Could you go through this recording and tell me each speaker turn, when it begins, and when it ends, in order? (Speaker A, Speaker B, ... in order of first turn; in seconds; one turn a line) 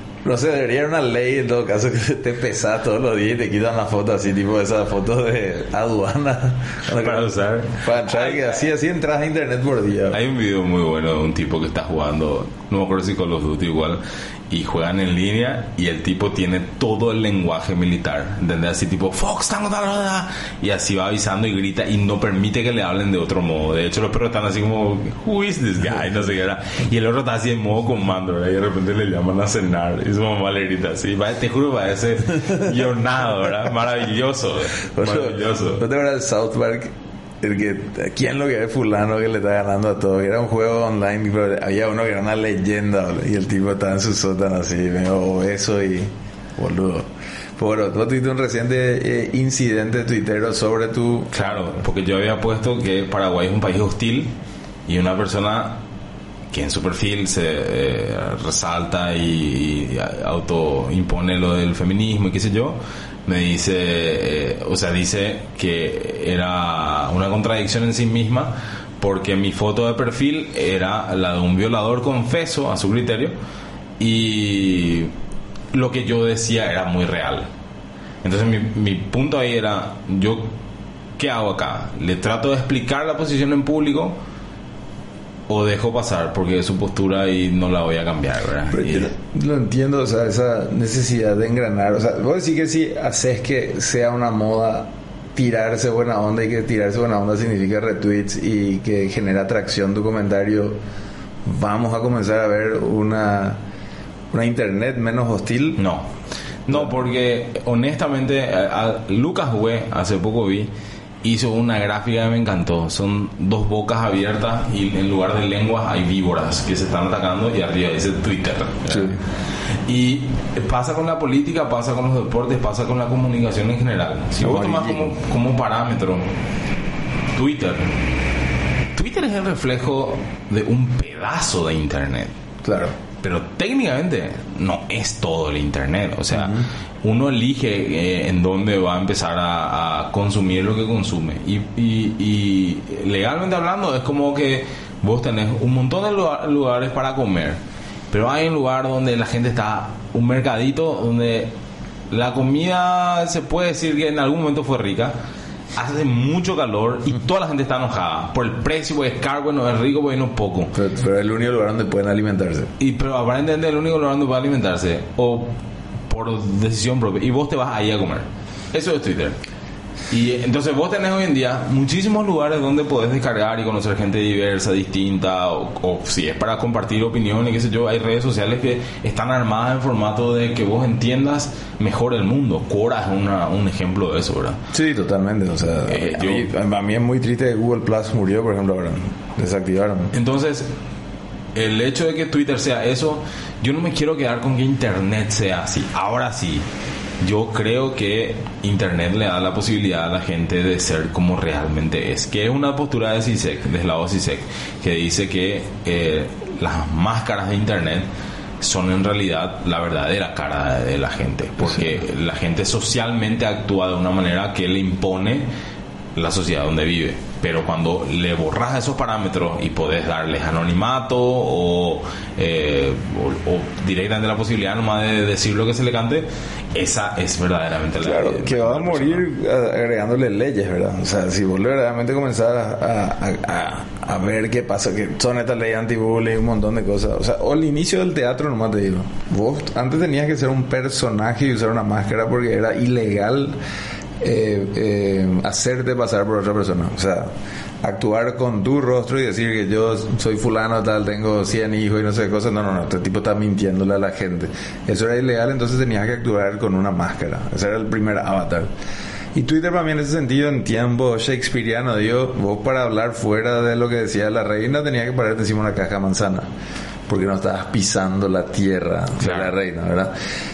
Speaker A: 0.2-7.3
Speaker B: 6.9-8.6
Speaker A: 7.8-10.2
Speaker B: 10.1-35.8
Speaker A: 35.0-51.7
Speaker B: 51.3-54.3
Speaker B: 54.9-55.8
Speaker B: 56.5-73.3
Speaker B: 74.0-75.1
Speaker B: 75.7-77.5
Speaker B: 78.2-80.5
Speaker B: 81.2-84.2
Speaker B: 85.5-89.1
Speaker A: 88.7-100.8
Speaker A: 101.4-103.6
Speaker A: 104.3-105.8
Speaker B: 105.8-106.1
Speaker B: 106.7-110.7
Speaker B: 111.2-119.2
Speaker A: 118.9-119.2
Speaker B: 119.8-126.3
Speaker A: 124.4-125.2
Speaker B: 127.3-128.0
Speaker B: 128.9-132.3
Speaker A: 132.6-133.0
Speaker B: 133.2-147.6
Speaker A: 136.3-136.7
Speaker B: 148.1-151.5
Speaker B: 152.1-155.2
Speaker B: 155.7-160.7
Speaker A: 160.7-162.7
Speaker B: 162.8-165.6
Speaker B: 166.1-169.4
Speaker B: 170.1-184.6
Speaker A: 184.7-190.1
Speaker B: 185.9-186.5
Speaker B: 190.1-190.7
Speaker B: 191.5-196.7
Speaker B: 197.2-208.1
Speaker B: 208.6-215.5
Speaker B: 216.1-229.2
Speaker A: 228.0-243.6
Speaker A: 244.2-258.7
Speaker A: 259.3-266.5
Speaker A: 267.1-270.1
Speaker B: 269.2-269.5